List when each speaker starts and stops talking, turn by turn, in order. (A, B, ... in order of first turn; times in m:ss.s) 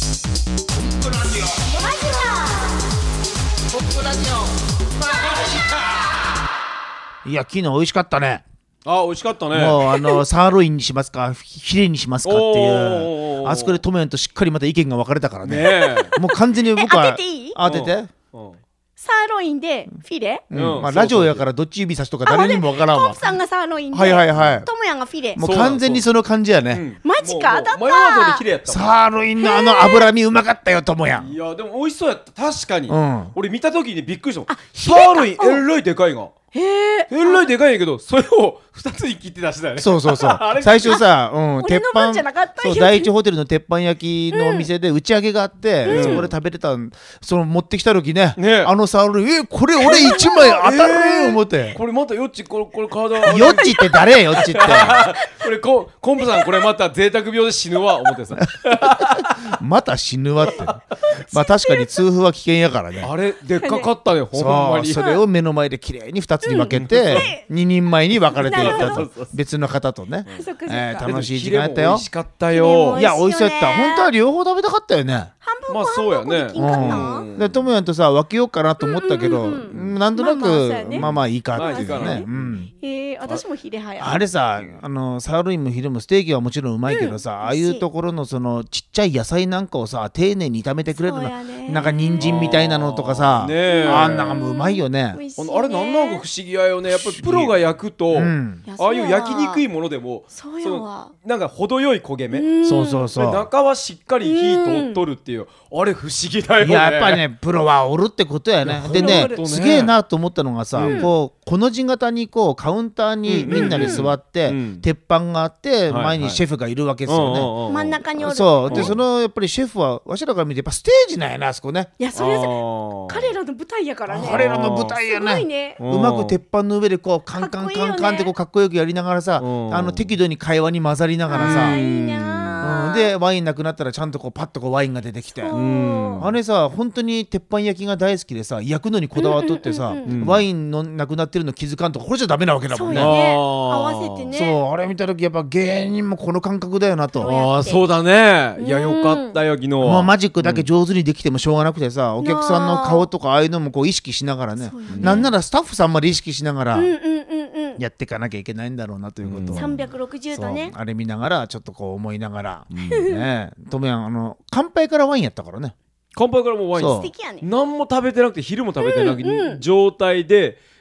0:00.7-0:01.7 A
0:01.6-0:02.8 B
0:03.7-0:06.0 A
0:07.2-0:08.4 A
0:08.8-0:09.8 C
0:09.5-0:18.1 A
0:09.9-0:10.2 B
0:12.2-0:13.8 C
0:15.4-0:16.1 C
0:15.8-0:17.6 B
0:17.6-0:18.6 C
0:19.0-0:20.4 B
0:20.5-0:23.3 A
0:20.5-0:21.4 C
0:22.2-0:25.4 B
0:23.9-0:24.7 A
0:25.4-0:26.8 A
0:25.4-0:26.1 C
0:26.7-0:28.9 C
0:27.0-0:28.4 B
0:28.7-0:31.3 A
0:29.4-0:30.1 B
0:31.2-0:36.3 C
0:32.9-0:33.3 A
0:34.5-0:35.6 B
0:36.5-0:37.5 B
0:37.1-0:41.0 C
0:39.8-0:51.8 A
0:41.6-0:43.1 B
0:44.3-0:44.7 B
0:45.8-0:46.3 B
0:45.9-0:46.3 C
0:48.4-0:48.7 C
0:49.8-0:50.6 B
0:50.6-0:59.6 C
0:53.2-0:55.1 A
0:53.5-0:55.3 B
0:56.2-0:56.5 B
0:58.9-1:03.1 A
1:00.5-1:00.8 C
1:03.0-1:05.1 C
1:03.6-1:03.9 B
1:04.3-1:12.0 A
1:05.0-1:05.2 B
1:06.4-1:07.4 B
1:06.7-1:07.3 C
1:08.3-1:09.1 B
1:08.4-1:09.3 C
1:10.2-1:13.0 C
1:10.3-1:11.1 B
1:12.5-1:14.1 B
1:12.9-1:15.3 A
1:15.4-1:17.3 B
1:15.7-1:17.7 C
1:16.6-1:22.7 A
1:18.8-1:22.3 B
1:19.7-1:20.0 C
1:20.9-1:22.6 C
1:22.8-1:24.2 B
1:24.0-1:35.2 A
1:26.8-1:27.8 B
1:30.9-1:32.3 B
1:32.2-1:34.4 C
1:33.7-1:36.2 B
1:35.4-1:42.5 C
1:36.9-1:37.6 A
1:38.1-1:38.6 A
1:38.6-1:39.6 B
1:40.3-1:41.1 B
1:42.3-1:43.1 B
1:42.6-1:43.5 A
1:43.1-1:47.2 C
1:44.2-1:45.0 B
1:46.6-1:57.5 A
1:48.6-1:49.9 C
1:48.9-1:49.4 B
1:50.7-1:51.1 C
1:50.8-1:51.1 B
1:53.2-1:54.8 C
1:53.5-1:54.1 B
1:55.9-1:56.4 C
1:57.0-1:58.0 C
1:57.7-1:59.0 B
1:58.2-2:01.9 A
1:58.7-1:59.0 C
2:02.0-2:05.8 B
2:02.1-2:03.3 C
2:04.1-2:11.8 A
2:04.2-2:05.0 C
2:05.8-2:06.4 C
2:07.4-2:08.3 B
2:09.4-2:10.2 C
2:11.3-2:13.1 B
2:11.4-2:12.6 C
2:12.6-2:15.5 A
2:15.4-2:16.3 B
2:15.5-2:16.3 C
2:16.2-2:23.2 A
2:19.2-2:20.2 B
2:20.0-2:20.4 C
2:22.7-2:24.6 B
2:22.9-2:24.2 C
2:24.3-2:27.3 A
2:27.2-2:27.8 B
2:27.2-2:30.7 C
2:28.6-2:29.4 B
2:29.8-2:36.9 A
2:32.2-2:33.1 B
2:34.6-2:35.3 B
2:34.9-2:35.3 C
2:36.7-2:37.8 B
2:37.8-2:45.7 A
2:39.2-2:39.6 C
2:39.5-2:40.7 B
2:42.9-2:43.2 B
2:46.1-2:50.6 C
2:46.7-2:47.1 A
2:46.9-2:47.4 B
2:48.8-2:49.6 B